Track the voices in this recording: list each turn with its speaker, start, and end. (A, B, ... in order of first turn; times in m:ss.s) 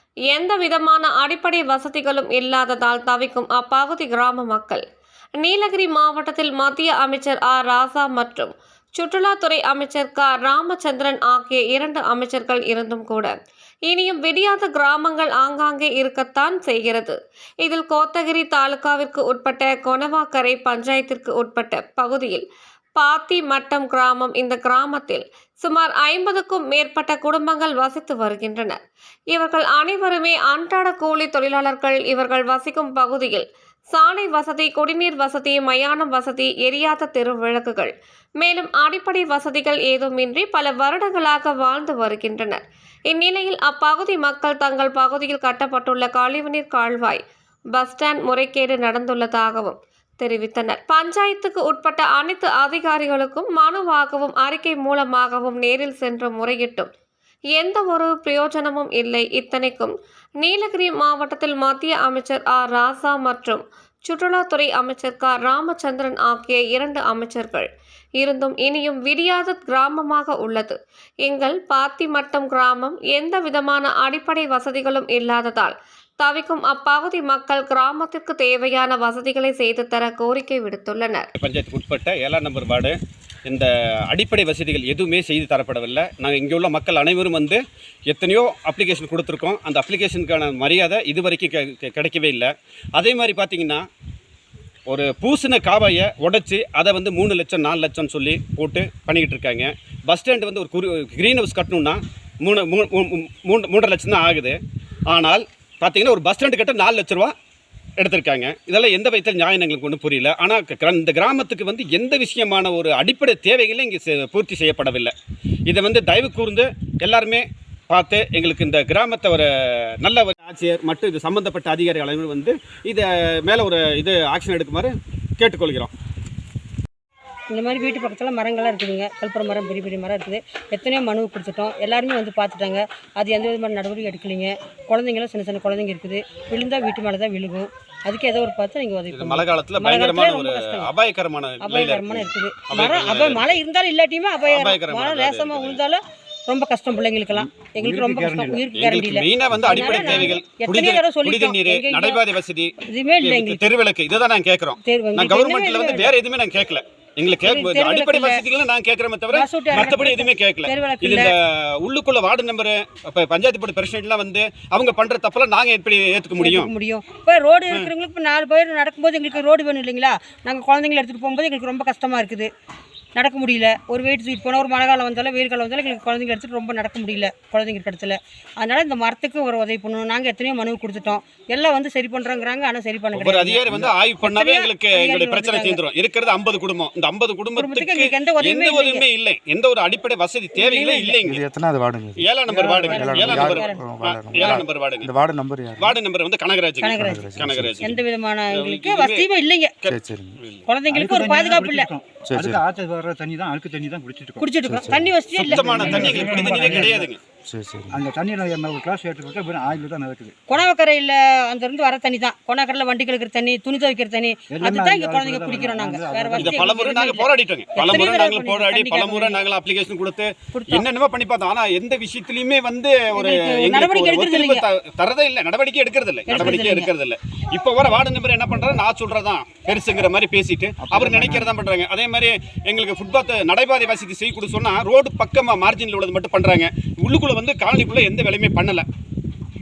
0:00.3-0:04.8 A
0:05.4-0:13.3 A
0:13.9-0:22.4 A
0:23.0-0:28.8 A
0:29.3-0:47.2 A
0:47.7-0:56.9 A
0:57.5-1:07.7 A
1:08.2-1:21.3 A
1:21.4-1:33.8 B
1:34.9-1:44.6 B
1:45.1-1:47.3 B
1:48.0-1:55.1 B
1:55.7-2:05.9 B
2:07.5-2:20.9 C
2:19.1-2:23.6 B
2:21.6-2:32.2 C
2:24.5-2:25.8 B
2:27.3-2:28.7 D
2:28.7-2:46.7 B
2:32.8-2:33.6 C
2:34.8-2:36.1 C
2:37.4-2:38.4 C
2:39.3-2:41.3 C
2:46.4-2:52.5 C
2:53.1-3:05.8 C
3:03.1-3:11.4 B
3:07.6-3:09.0 C
3:10.6-3:11.2 C
3:11.2-3:12.3 E
3:12.2-3:15.1 B
3:12.5-3:12.9 D
3:12.9-3:13.8 C
3:12.9-3:15.9 E
3:14.4-3:14.6 C
3:15.8-3:17.9 B
3:16.8-3:19.8 C
3:17.0-3:18.0 E
3:18.5-3:19.3 B
3:19.8-3:20.6 B
3:19.9-3:20.4 E
3:20.7-3:21.9 C
3:20.9-3:24.5 D
3:22.2-3:22.6 E
3:24.4-3:26.6 C
3:24.6-3:25.1 E
3:25.4-3:27.2 B
3:25.5-3:27.1 D
3:27.4-3:28.0 E
3:27.9-3:30.3 D
3:30.5-3:39.4 C
3:34.5-3:36.8 D
3:36.4-3:58.8 B
3:40.5-3:40.8 C
3:43.1-3:44.6 C
3:46.3-3:46.9 C
3:50.8-3:51.5 D